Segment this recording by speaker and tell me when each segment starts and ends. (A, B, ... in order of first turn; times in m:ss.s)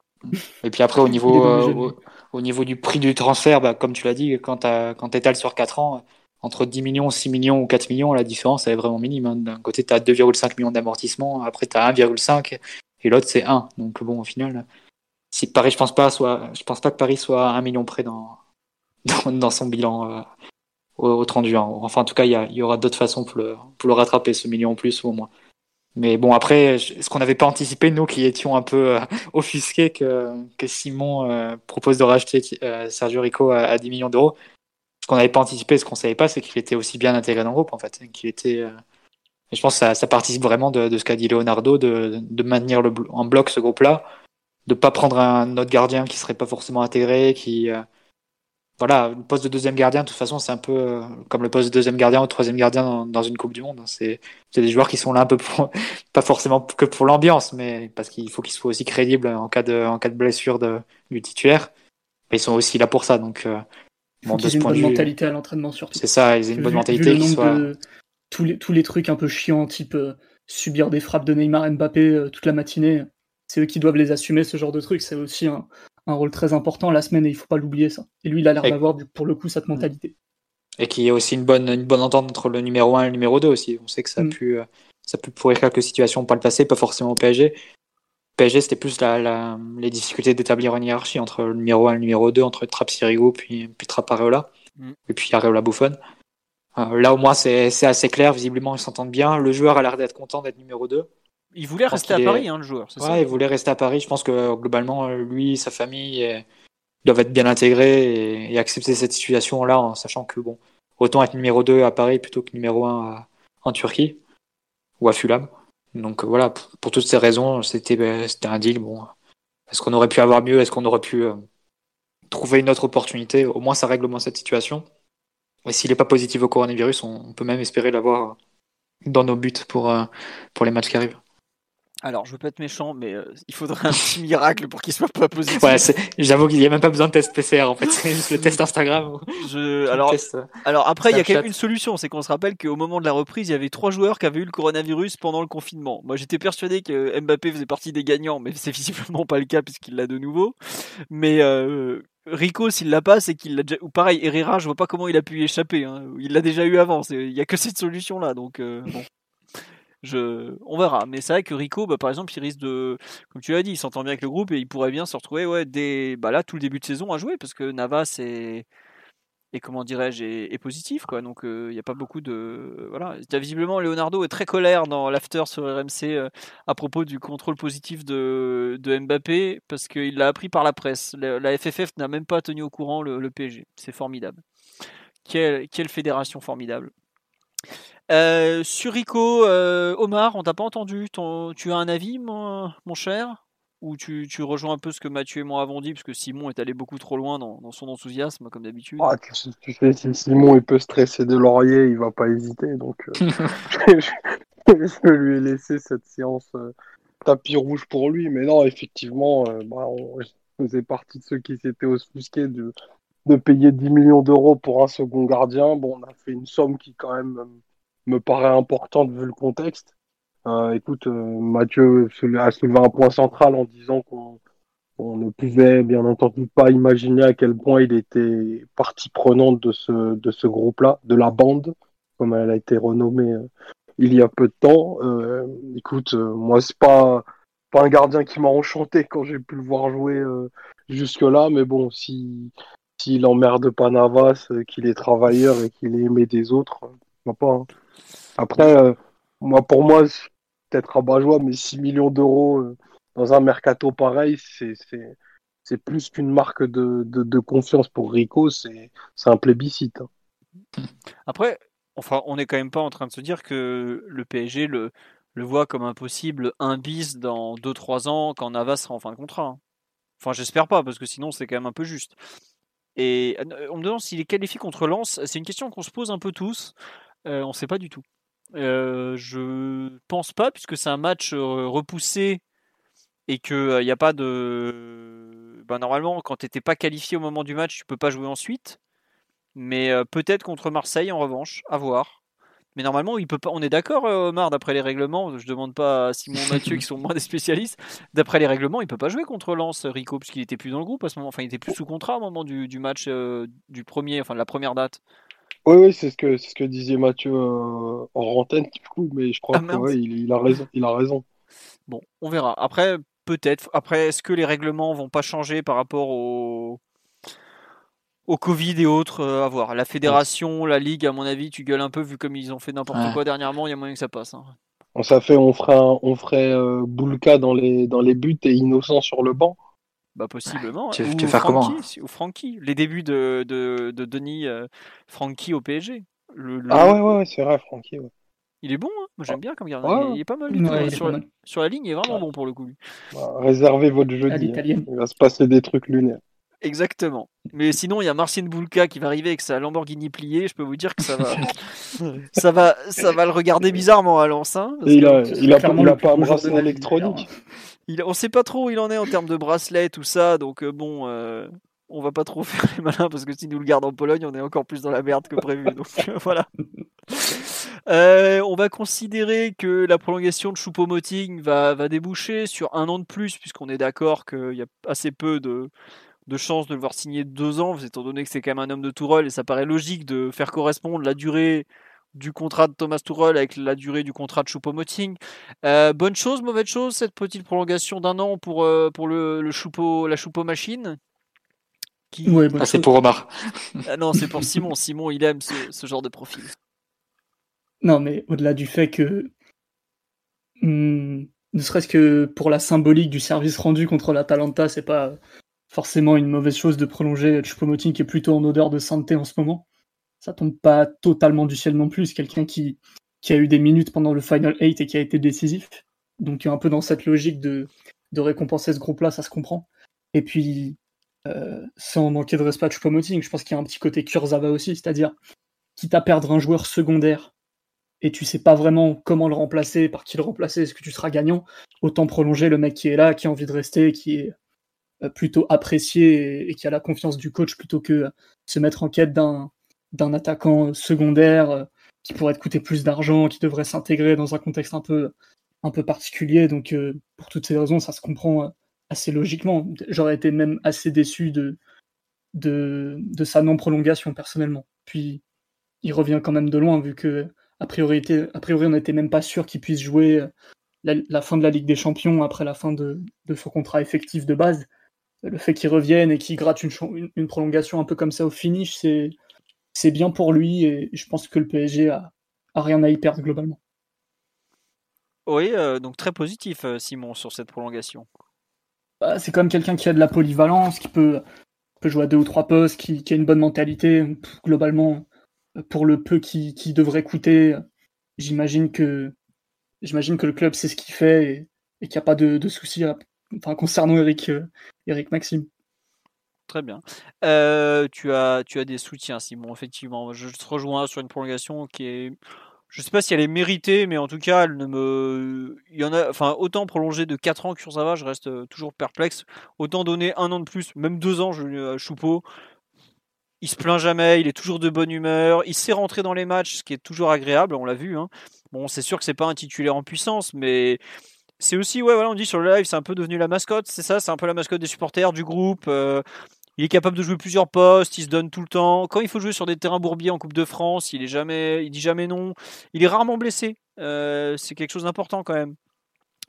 0:00.6-0:14.6 A
0:01.1-0:01.9 B
0:15.3-0:18.4 A
0:19.0-0:20.3 A
0:21.0-0:25.3 A
0:26.0-0:34.4 A
0:35.0-0:38.8 A
0:39.5-0:44.0 A
0:44.7-0:47.8 A
0:48.8-1:01.7 A
1:02.3-1:03.6 A
1:04.2-1:05.1 A
1:04.3-1:06.0 B
1:06.0-1:07.7 A
1:06.5-1:07.8 B
1:08.3-1:20.1 B
1:20.8-1:27.6 A
1:28.4-1:34.5 A
1:35.1-1:36.0 A
1:36.8-1:41.1 A
1:41.6-1:43.2 C
1:41.9-1:42.5 A
1:43.0-1:46.4 A
1:47.0-1:54.2 A
1:55.0-1:59.1 A
1:59.7-2:01.4 A
2:02.3-2:04.9 A
2:05.6-2:08.4 A
2:09.1-2:11.2 A
2:12.0-2:15.9 C
2:15.6-2:19.2 A
2:19.4-2:30.6 C
2:19.9-2:20.5 A
2:21.1-2:21.5 A
2:31.1-2:39.1 C
2:40.0-2:48.7 C
2:49.5-3:04.4 C
3:05.2-3:06.9 C
3:08.1-3:19.1 C
3:19.0-3:24.1 D
3:24.7-3:26.7 D
3:27.2-3:32.7 D
3:33.3-3:39.9 D
3:40.5-3:44.4 D
3:45.0-3:53.4 D
3:54.0-4:07.7 D
4:08.4-4:15.1 D
4:15.7-4:20.1 D
4:21.3-4:29.6 C
4:30.2-4:32.2 C
4:33.0-4:36.7 C
4:37.3-4:38.0 C
4:38.5-4:42.4 C
4:43.3-4:48.8 C
4:49.6-4:52.2 C
4:52.8-5:05.0 C
5:05.7-5:11.2 D
5:09.5-5:09.9 C
5:11.9-5:16.8 C
5:18.3-5:24.6 C
5:22.9-5:23.2 A
5:25.0-5:29.6 D
5:30.2-5:37.0 C
5:30.9-5:31.8 A
5:36.7-5:38.1 D
5:38.6-5:42.8 C
5:39.3-5:40.2 D
5:40.5-5:41.3 B
5:43.1-5:46.2 D
5:44.3-5:44.9 B
5:46.6-5:55.2 C
5:54.9-5:57.2 D
5:55.3-5:57.3 B
5:57.9-6:06.5 C
6:07.1-6:15.7 C
6:16.3-6:31.0 C
6:32.1-6:32.4 C
6:32.2-6:32.9 B
6:32.6-6:33.8 A
6:33.9-6:36.5 C
6:37.8-6:39.3 B
6:40.6-6:45.2 B
6:45.7-6:49.6 B
6:50.2-7:05.2 B
7:05.8-7:07.3 B
7:08.0-7:14.3 B
7:15.0-7:31.6 B
7:32.4-7:35.2 B
7:35.8-7:40.3 B
7:40.8-7:44.7 B
7:45.2-7:49.2 B
7:49.8-7:53.6 B
7:55.3-7:58.1 C
7:59.0-8:01.2 B
8:01.8-8:05.1 B
8:05.6-8:07.6 B
8:08.2-8:09.1 B
8:09.8-8:15.5 B
8:16.5-8:22.2 C
8:22.7-8:32.2 C
8:33.4-8:40.8 C
8:41.4-8:46.0 C
8:46.6-8:55.6 C